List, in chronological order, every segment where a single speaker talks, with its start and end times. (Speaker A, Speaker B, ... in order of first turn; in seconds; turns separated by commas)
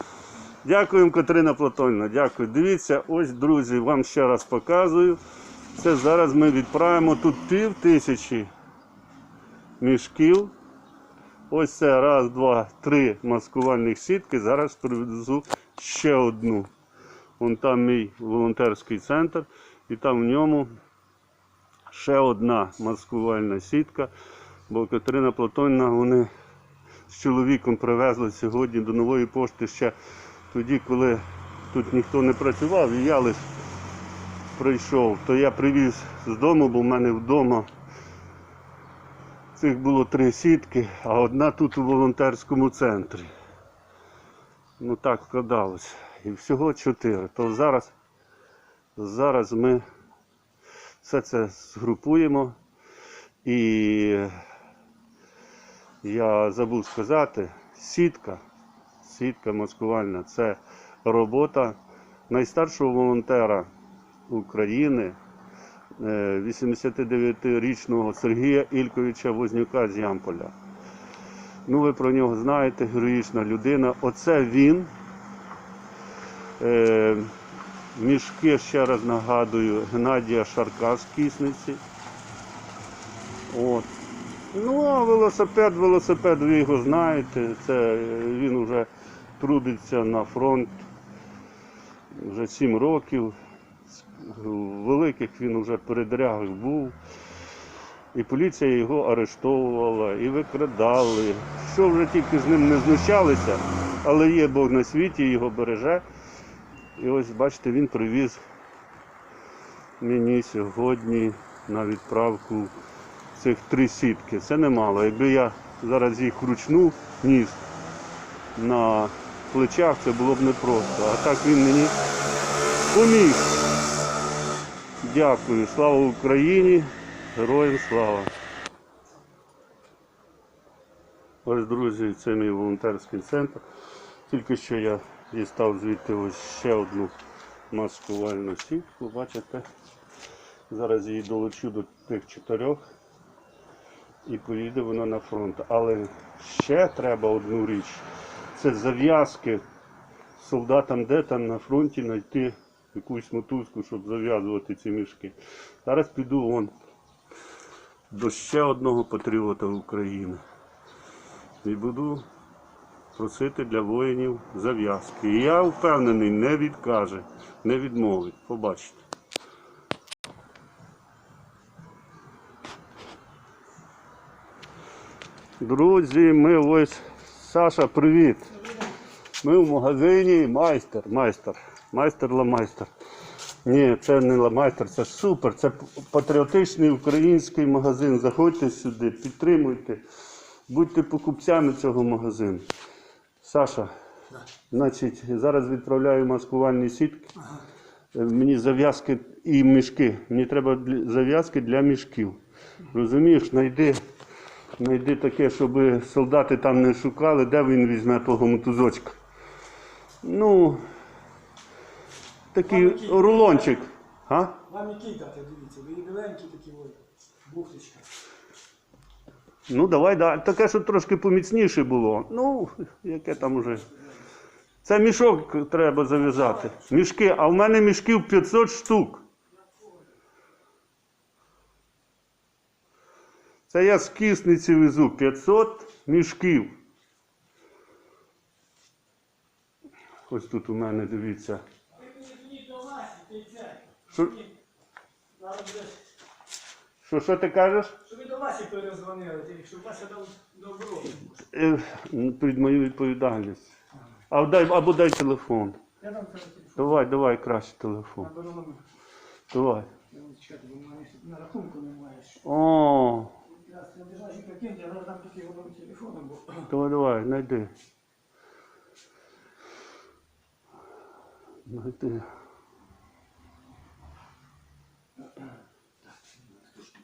Speaker A: 0.6-5.2, Speaker A: 5.7-8.5, Speaker A: 9.8-10.5, Speaker A: 11.5-16.7, Speaker A: 17.4-20.7, Speaker A: 21.9-24.1, Speaker A: 24.7-26.3, Speaker A: 27.1-29.9, Speaker A: 30.5-33.5, Speaker A: 34.5-37.7, Speaker A: 39.6-43.3, Speaker A: 44.8-47.9, Speaker A: 49.0-49.8, Speaker A: 51.0-52.6, Speaker A: 53.5-54.4, Speaker A: 56.0-58.4, Speaker A: 59.0-61.8, Speaker A: 62.3-63.7, Speaker A: 64.3-65.2, Speaker A: 66.0-70.5, Speaker A: 71.7-74.9, Speaker A: 76.6-77.3, Speaker A: 78.0-81.8, Speaker A: 83.5-83.9, Speaker A: 84.5-90.9, Speaker A: 92.1-93.3, Speaker A: 93.9-97.0, Speaker A: 98.1-106.0, Speaker A: 107.0-108.4, Speaker A: 110.0-112.8, Speaker A: 113.3-117.6, Speaker A: 118.6-122.0, Speaker A: 122.9-123.6, Speaker A: 125.0-128.3, Speaker A: 131.4-133.6, Speaker A: 134.3-137.1, Speaker A: 137.7-139.7, Speaker A: 140.7-142.8, Speaker A: 144.2-149.6, Speaker A: 150.4-156.7, Speaker A: 158.1-160.4, Speaker A: 161.6-162.3, Speaker A: 163.2-169.0, Speaker A: 175.6-178.6, Speaker A: 179.4-182.9, Speaker A: 183.7-190.0, Speaker A: 190.7-192.7, Speaker A: 193.4-193.9, Speaker A: 194.7-197.3, Speaker A: 198.1-202.4, Speaker A: 202.9-204.0, Speaker A: 204.8-209.2, Speaker A: 210.2-210.8, Speaker A: 212.5-214.6, Speaker B: 212.7-213.8, Speaker B: 214.7-218.1, Speaker A: 219.7-223.9, Speaker A: 224.8-229.2, Speaker A: 233.7-236.8, Speaker A: 240.3-241.6, Speaker B: 242.0-244.5, Speaker B: 245.4-246.0, Speaker A: 247.0-247.9, Speaker B: 248.1-251.3, Speaker A: 251.5-253.8, Speaker A: 254.3-255.8, Speaker B: 256.0-257.0, Speaker A: 256.8-258.3, Speaker B: 258.2-258.8, Speaker A: 259.5-259.9, Speaker B: 260.1-262.4, Speaker A: 262.4-263.4, Speaker B: 263.5-266.7, Speaker A: 266.7-267.7, Speaker A: 271.7-272.3